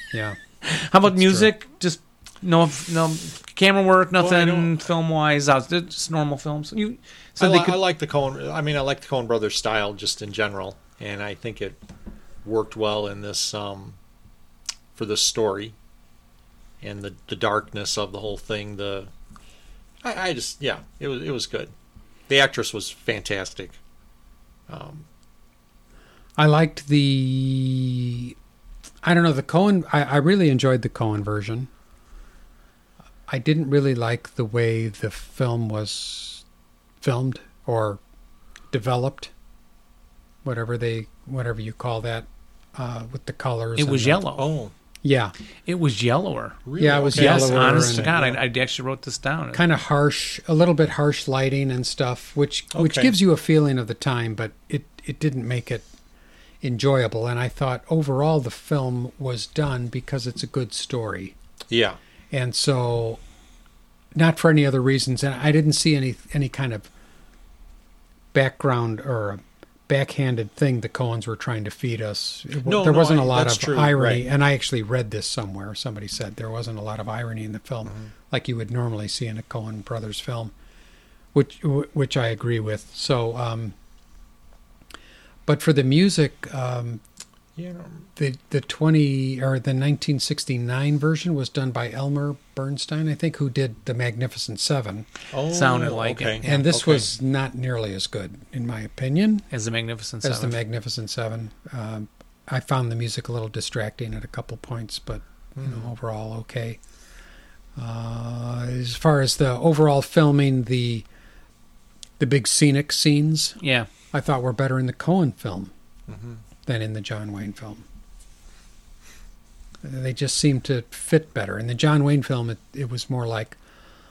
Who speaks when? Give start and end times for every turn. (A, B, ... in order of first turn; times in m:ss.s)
0:00.1-0:00.4 A
0:00.6-0:07.8 B
0:01.1-0:01.5 A
0:04.2-0:04.8 C
0:07.4-0:11.8 C
0:12.4-0:14.0 C
0:15.0-0:15.7 C
0:16.8-0:19.1 C
0:20.0-0:21.7 C
0:22.3-0:23.8 C
0:24.7-0:25.0 C
0:26.4-0:28.3 A
0:29.0-0:31.7 A
0:33.3-0:36.4 A
0:37.0-0:38.0 A
0:38.7-0:39.3 A
0:40.4-0:44.2 A
0:43.8-0:44.5 B
0:44.4-0:44.7 C
0:45.0-0:45.3 A
0:45.6-0:49.6 B
0:46.6-0:48.4 C
0:46.8-0:48.1 A
0:49.5-0:55.9 A
0:52.7-0:53.1 C
0:56.6-1:01.4 A
1:01.7-1:02.0 C
1:02.3-1:03.2 A
1:04.1-1:06.9 A
1:08.3-1:20.5 A
1:12.6-1:14.2 C
1:17.8-1:18.1 C
1:21.3-1:23.7 A
1:25.4-1:27.0 A
1:27.6-1:28.1 C
1:28.2-1:35.1 A
1:35.3-1:37.1 C
1:35.5-1:36.5 B
1:36.4-1:39.4 A
1:39.5-1:40.6 B
1:40.2-1:46.8 A
1:45.6-1:45.9 C
1:47.8-1:51.0 A
1:52.2-1:53.6 A
1:53.6-1:53.9 B
1:54.1-1:55.7 A
1:56.1-1:56.4 C
1:56.6-1:57.8 A
1:59.8-2:03.6 A